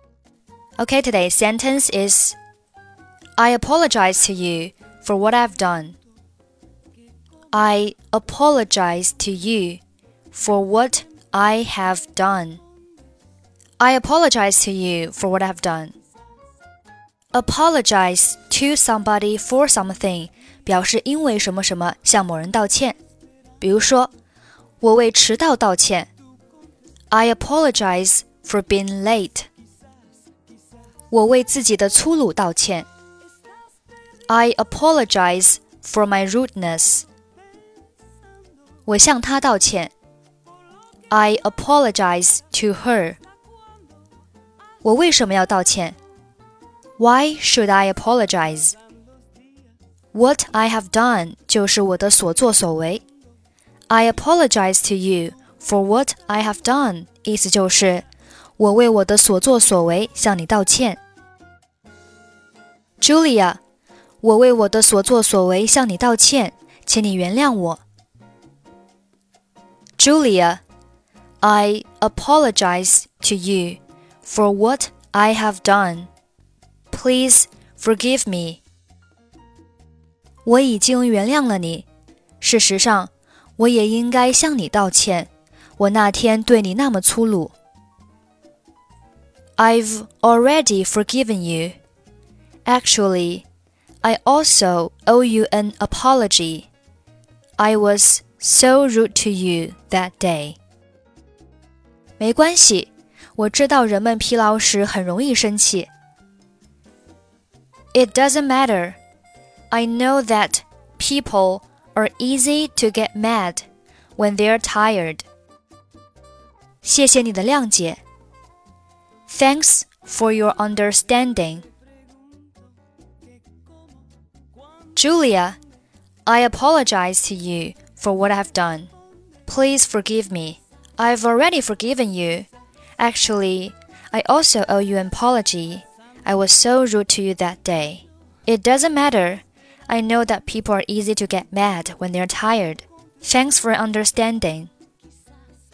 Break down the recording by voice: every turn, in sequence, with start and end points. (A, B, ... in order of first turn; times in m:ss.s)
0:00.8-0:02.4 A
0:03.4-0:06.0 A
0:07.5-0:09.8 A
0:10.3-0:12.6 A
0:13.8-0:15.9 A
0:17.3-0:23.0 A
0:23.6-0:24.1 A
0:24.8-0:26.1 A
0:27.1-0:29.5 A
0:31.1-0:32.9 A
0:34.3-0:37.1 A
0:38.9-0:39.9 A
0:41.1-0:43.2 A
0:44.8-0:46.0 A
0:47.0-0:48.8 A
0:50.1-0:53.0 A
0:53.9-0:58.1 A
0:58.6-1:01.0 A
1:03.0-1:03.6 A
1:04.2-1:07.8 A
1:10.0-1:10.6 A
1:11.4-1:16.1 A
1:16.9-1:18.6 A
1:20.4-1:21.8 A
1:22.4-1:27.5 A
1:29.6-1:31.8 A
1:32.7-1:33.4 A
1:34.0-1:36.7 A
1:37.6-1:40.6 A
1:42.2-1:45.9 A
1:47.9-1:49.0 A
1:49.7-1:53.6 A
1:54.2-1:55.2 A
1:56.8-1:58.0 A
1:59.3-2:01.7 A
2:05.0-2:05.6 A
2:06.3-2:08.9 A
2:09.5-2:12.5 A
2:13.0-2:24.7 A